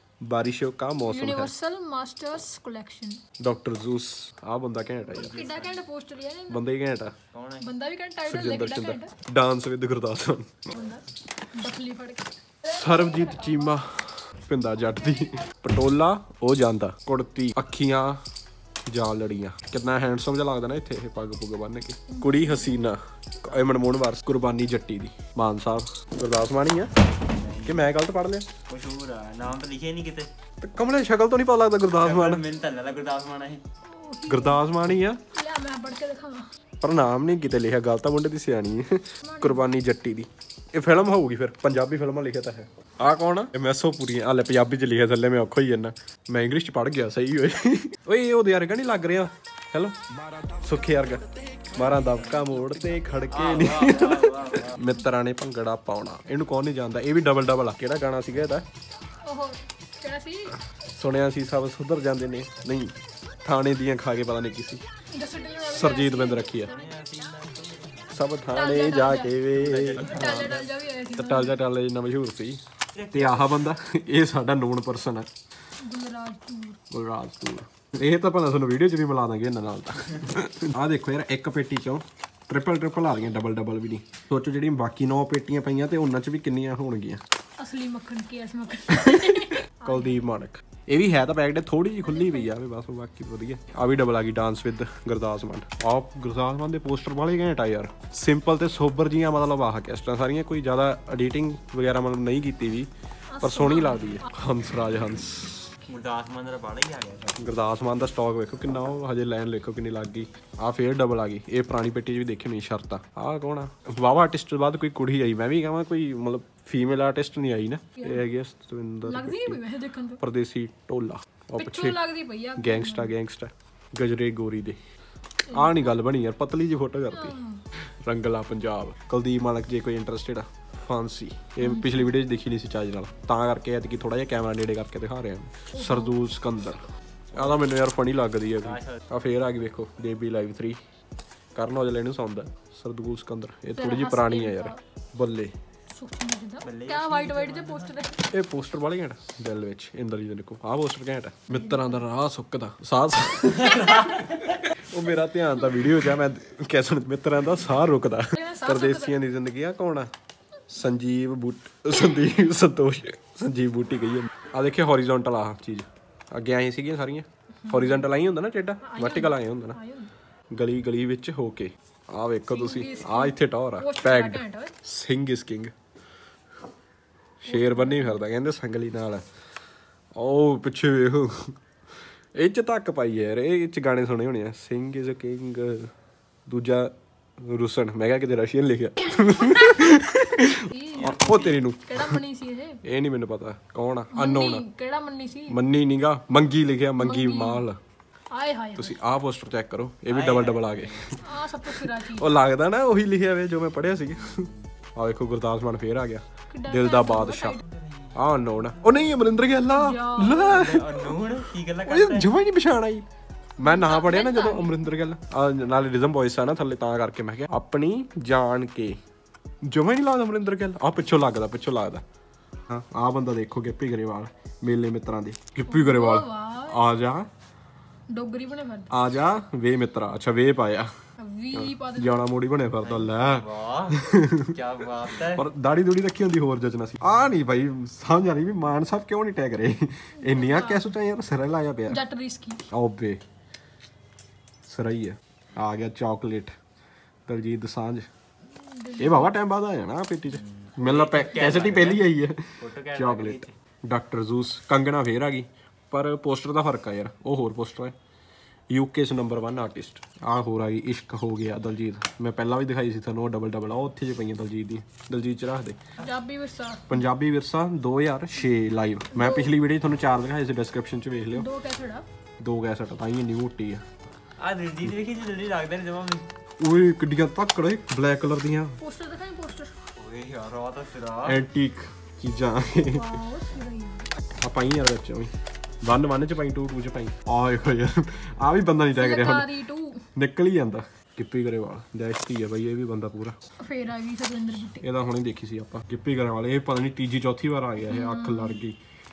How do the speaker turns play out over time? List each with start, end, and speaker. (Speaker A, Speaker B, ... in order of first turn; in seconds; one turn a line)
Speaker A: 0.2-1.5
Speaker B: 1.1-3.2
Speaker A: 3.4-5.3
Speaker B: 5.1-6.7
Speaker C: 5.1-5.8
Speaker A: 6.5-7.1
Speaker C: 7.3-7.7
Speaker B: 7.6-9.1
Speaker A: 8.3-10.8
Speaker B: 10.7-12.3
Speaker A: 12.7-18.2
Speaker A: 18.9-26.9
Speaker B: 22.1-22.9
Speaker C: 27.3-27.9
Speaker A: 27.7-28.5
Speaker C: 28.7-30.3
Speaker A: 30.6-32.4
Speaker C: 31.9-33.6
Speaker B: 33.9-34.7
Speaker A: 34.3-35.2
Speaker B: 35.4-36.5
Speaker A: 36.8-50.0
Speaker B: 39.2-39.7
Speaker A: 50.5-58.6
Speaker C: 53.3-54.7
Speaker B: 59.2-60.6
Speaker A: 61.0-64.8
Speaker B: 65.1-66.8
Speaker A: 65.6-66.7
Speaker C: 66.7-68.1
Speaker A: 68.1-70.6
Speaker B: 68.5-69.3
Speaker C: 69.5-70.7
Speaker B: 70.0-71.5
Speaker A: 71.2-72.6
Speaker C: 73.0-73.4
Speaker A: 73.1-75.3
Speaker B: 75.8-76.8
Speaker A: 76.9-87.2
Speaker B: 87.6-90.3
Speaker A: 89.0-102.9
Speaker B: 92.0-92.5
Speaker B: 103.3-104.3
Speaker A: 103.4-105.7
Speaker C: 105.9-107.4
Speaker A: 107.4-119.6
Speaker B: 118.0-118.2
Speaker B: 119.0-120.2
Speaker A: 120.2-122.0
Speaker B: 121.6-123.1
Speaker A: 122.6-124.8
Speaker B: 125.5-126.0
Speaker A: 125.5-140.8
Speaker B: 127.1-127.6
Speaker B: 131.6-132.1
Speaker B: 135.7-136.2
Speaker C: 137.3-137.6
Speaker C: 138.6-139.0
Speaker A: 141.6-145.5
Speaker B: 143.8-144.8
Speaker B: 145.9-148.3
Speaker C: 146.6-147.9
Speaker A: 148.3-160.1
Speaker B: 151.5-152.0
Speaker B: 158.3-159.2
Speaker A: 160.7-169.8
Speaker B: 167.6-168.0
Speaker B: 168.8-170.1
Speaker A: 170.5-175.7
Speaker B: 172.5-174.7
Speaker A: 177.4-179.2
Speaker B: 177.5-178.2
Speaker A: 180.2-181.6
Speaker A: 182.3-185.9
Speaker A: 186.5-192.2
Speaker B: 190.7-192.8
Speaker C: 191.0-191.6
Speaker A: 192.8-194.7
Speaker B: 194.1-195.6
Speaker A: 195.5-197.8
Speaker B: 197.0-197.7
Speaker B: 198.3-199.0
Speaker A: 198.8-201.3
Speaker C: 200.1-201.2
Speaker B: 201.1-202.3
Speaker A: 202.0-207.6
Speaker C: 204.2-204.6
Speaker B: 206.5-207.6
Speaker C: 207.7-209.4
Speaker A: 208.2-213.1
Speaker B: 209.6-210.8
Speaker C: 210.2-212.3
Speaker B: 213.6-215.0
Speaker A: 213.6-219.0
Speaker A: 219.6-222.0
Speaker A: 222.7-227.3
Speaker B: 225.7-226.8
Speaker B: 228.1-228.9
Speaker A: 228.9-230.9
Speaker B: 231.2-232.2
Speaker A: 231.5-242.0
Speaker C: 232.8-235.4
Speaker B: 240.2-240.9
Speaker B: 241.9-242.6
Speaker A: 242.7-243.2
Speaker A: 244.7-246.5
Speaker A: 247.3-248.1
Speaker B: 248.6-249.3
Speaker A: 249.0-257.9
Speaker C: 250.3-253.5
Speaker A: 258.7-265.8
Speaker B: 266.0-267.0
Speaker A: 266.9-271.5
Speaker B: 269.1-269.5
Speaker B: 271.4-272.1
Speaker A: 272.4-273.8
Speaker C: 274.4-276.3
Speaker A: 276.6-278.8
Speaker B: 278.8-279.8
Speaker C: 280.0-281.4
Speaker A: 281.2-283.1
Speaker B: 282.7-284.1
Speaker A: 284.4-285.3
Speaker A: 285.8-289.5
Speaker B: 288.9-290.0
Speaker A: 290.2-293.4
Speaker B: 293.6-294.9
Speaker A: 294.8-298.8
Speaker B: 297.9-298.6